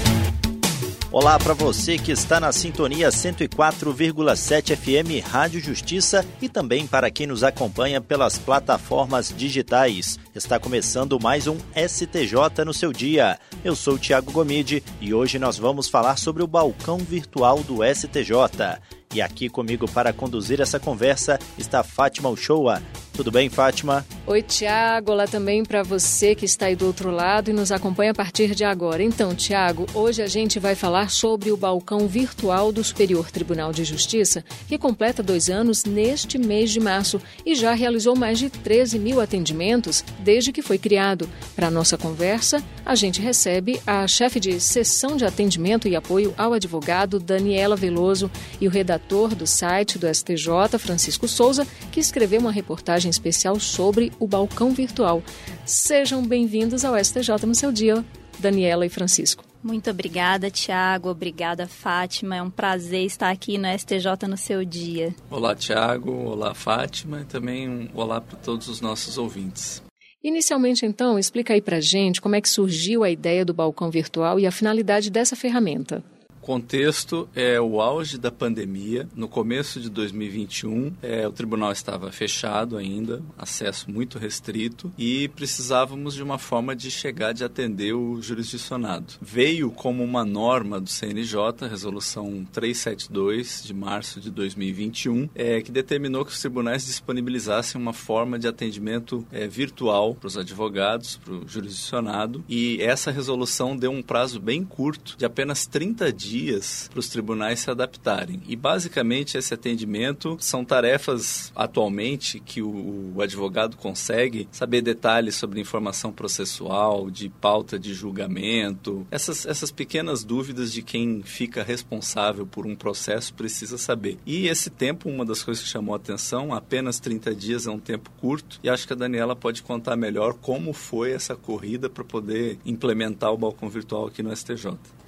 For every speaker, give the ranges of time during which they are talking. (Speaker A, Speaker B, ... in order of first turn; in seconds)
Speaker A: 1.1-24.1
Speaker B: 24.3-59.4, 70.2-76.0
Speaker C: 59.6-65.1
Speaker D: 65.3-69.8, 76.4-134.9